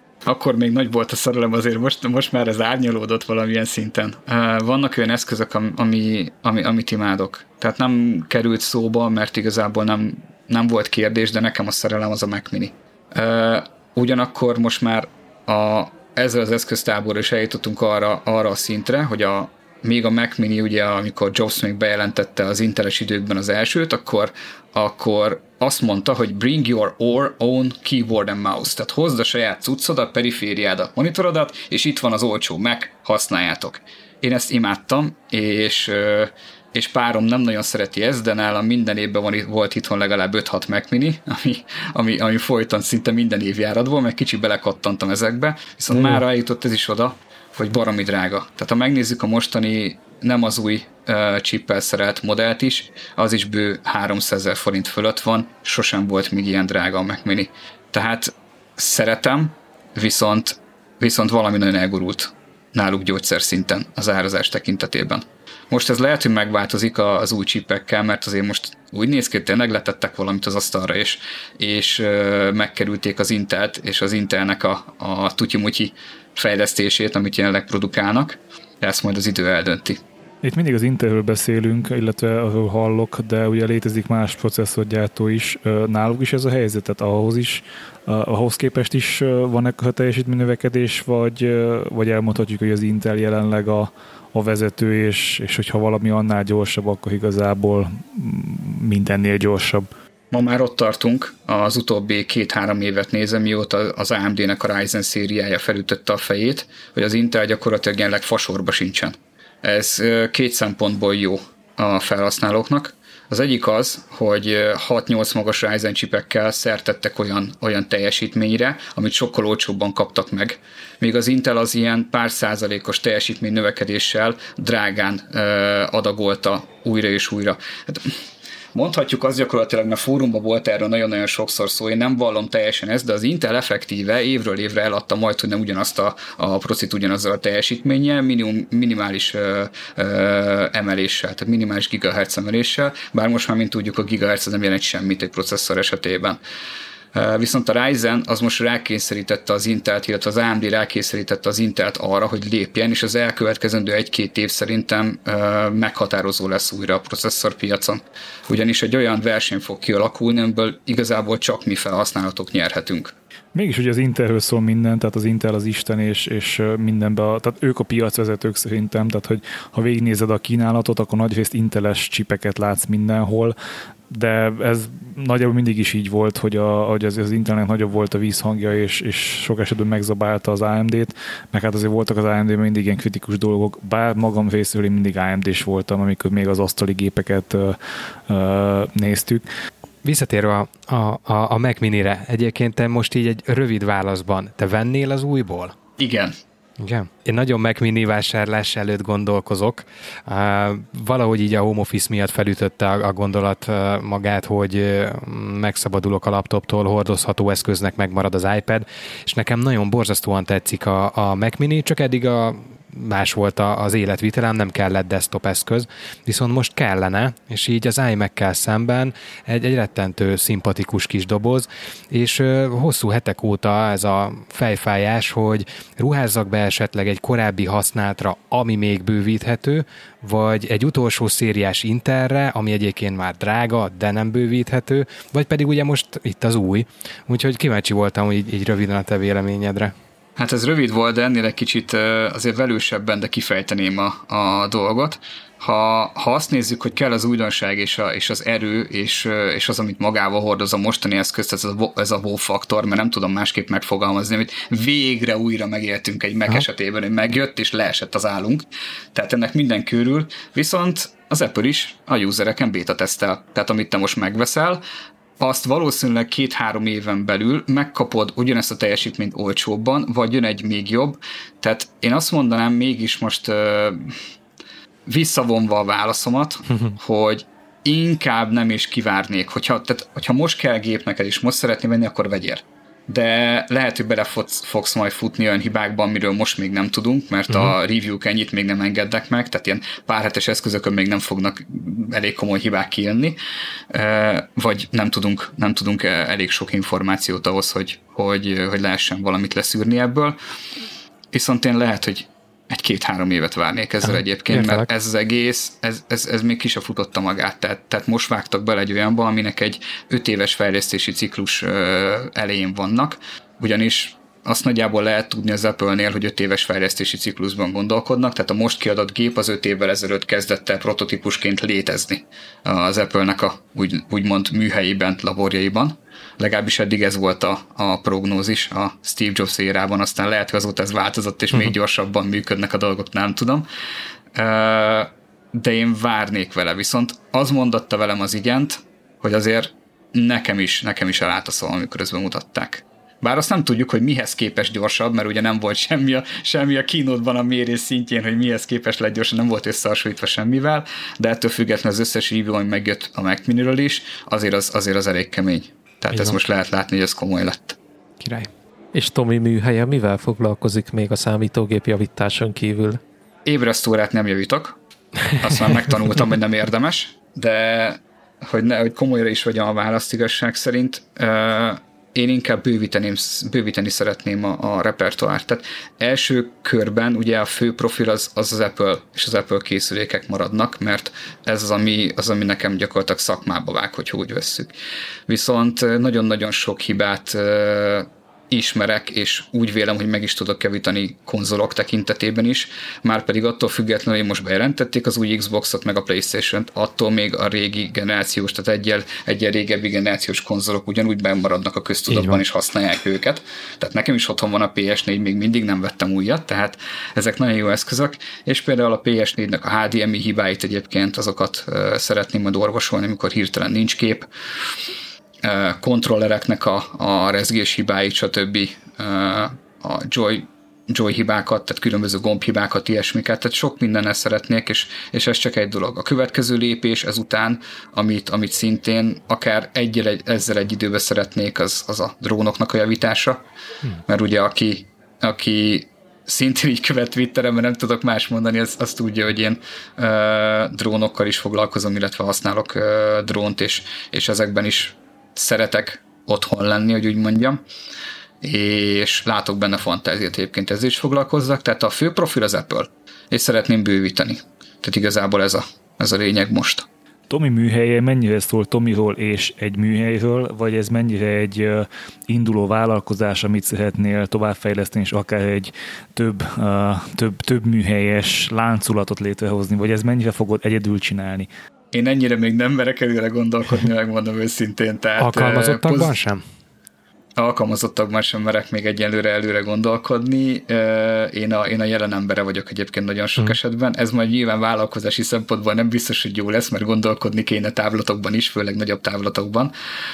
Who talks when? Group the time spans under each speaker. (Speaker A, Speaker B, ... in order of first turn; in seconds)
Speaker A: 0.2-80.0, 100.3-128.2, 128.7-146.4, 147.1-163.1, 196.0-196.4, 240.4-264.8, 265.4-274.2, 275.1-293.4, 293.9-300.4, 301.3-333.7, 334.4-357.8, 363.5-364.8, 365.3-384.7, 385.3-414.3, 415.4-433.4, 434.1-447.6, 448.4-456.9, 471.9-476.1, 477.4-489.7
Speaker B: 80.4-99.9, 163.5-173.6, 174.1-189.4, 457.3-471.5
Speaker C: 190.0-195.8, 196.8-239.9, 304.0-304.9, 356.1-356.4, 358.2-358.5, 402.1-402.4, 475.2-476.4
Speaker D: 358.9-363.0